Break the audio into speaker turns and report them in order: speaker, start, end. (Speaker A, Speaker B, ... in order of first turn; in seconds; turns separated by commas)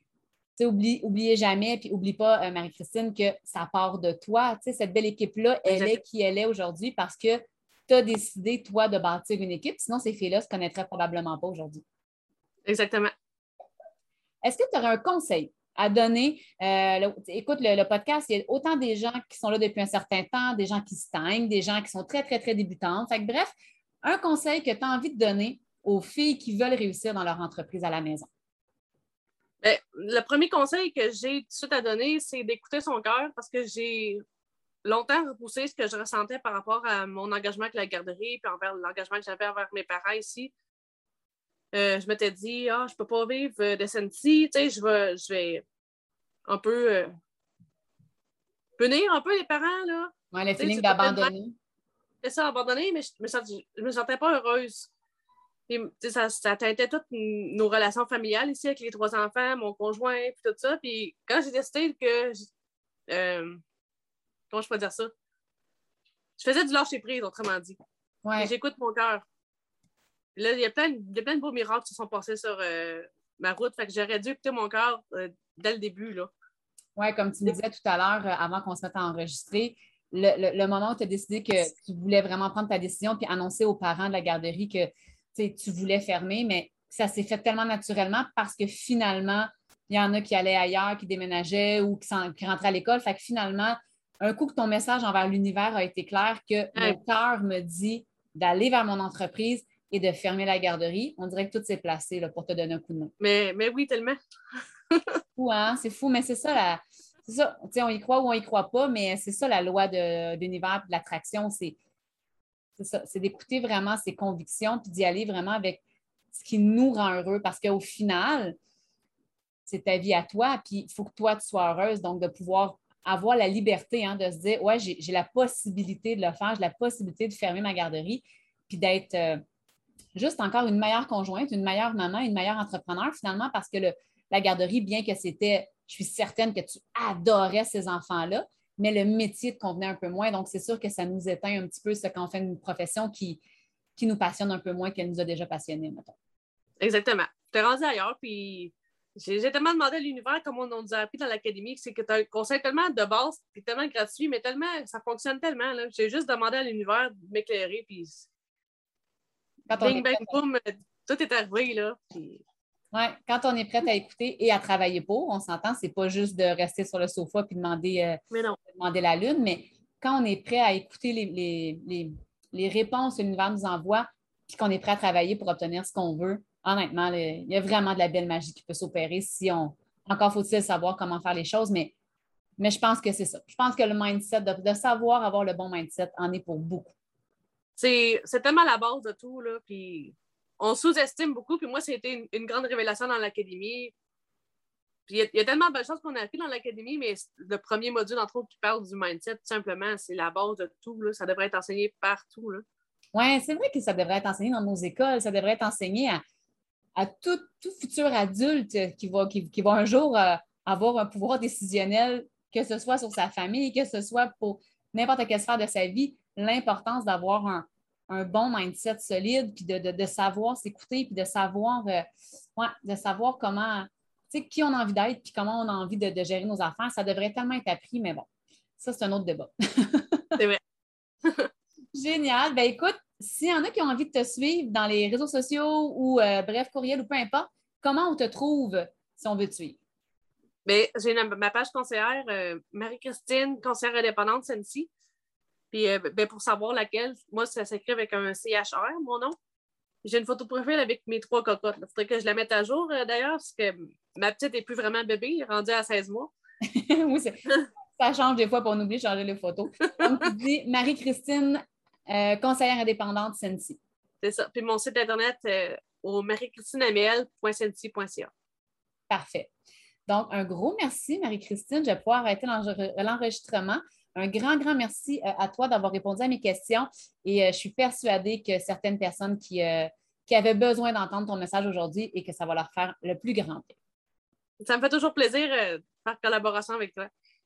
Speaker A: 0.6-11.8, Speaker B: 5.7-6.0, Speaker B: 12.7-13.1, Speaker A: 14.4-28.3, Speaker B: 29.6-34.2, Speaker B: 34.8-40.5, Speaker B: 41.7-45.6, Speaker B: 46.5-47.1, Speaker B: 48.8-51.3, Speaker A: 50.3-51.5, Speaker B: 52.2-54.9, Speaker B: 55.7-62.5, Speaker B: 63.1-63.6, Speaker B: 64.5-65.1, Speaker B: 66.4-67.8, Speaker A: 68.2-68.5, Speaker B: 68.4-69.2, Speaker B: 70.3-76.3, Speaker A: 77.0-103.1, Speaker B: 103.2-104.2, Speaker A: 105.4-111.8, Speaker A: 112.8-118.5, Speaker A: 119.7-129.4, Speaker A: 130.1-143.4, Speaker A: 143.9-146.2, Speaker B: 146.8-158.3, Speaker A: 159.7-160.4, Speaker B: 159.7-162.4, Speaker A: 162.9-168.2, Speaker B: 168.3-168.6, Speaker A: 168.7-181.9, Speaker A: 182.6-186.9, Speaker B: 187.8-193.9, Speaker B: 195.1-202.6, Speaker A: 203.1-206.2, Speaker A: 206.9-228.3, Speaker A: 228.8-230.3, Speaker A: 231.9-239.8, Speaker B: 240.7-244.9, Speaker B: 245.7-249.3, Speaker B: 250.0-256.3, Speaker A: 256.7-257.4, Speaker A: 257.9-263.8, Speaker B: 264.2-268.3, Speaker A: 269.1-269.5, Speaker A: 270.1-283.8, Speaker B: 284.6-287.1